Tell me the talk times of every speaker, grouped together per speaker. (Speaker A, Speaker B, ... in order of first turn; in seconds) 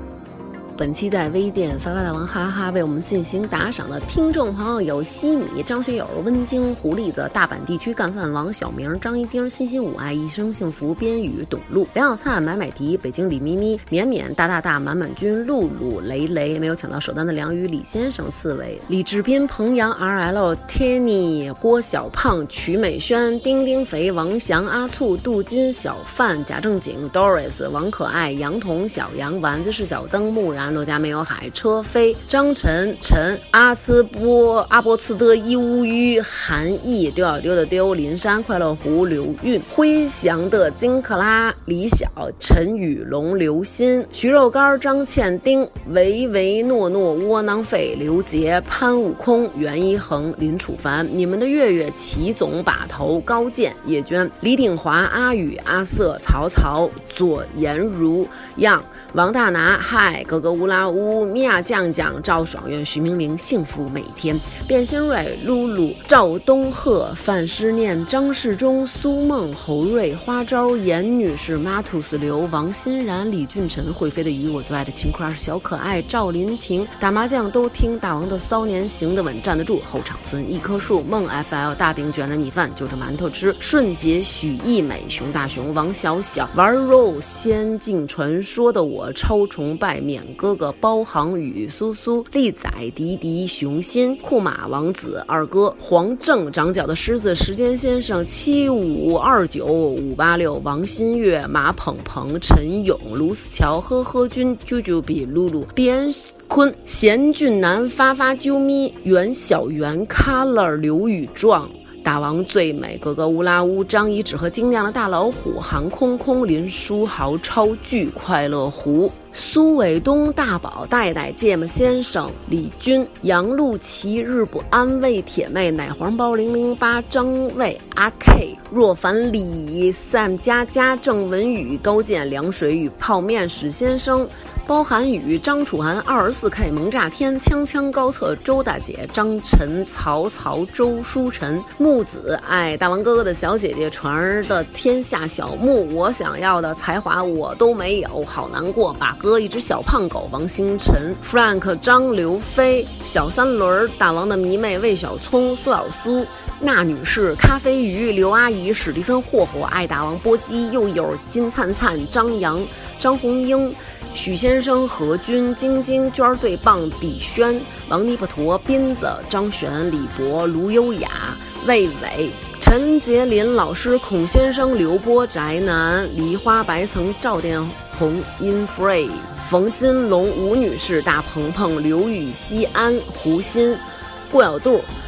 Speaker A: 0.8-184.9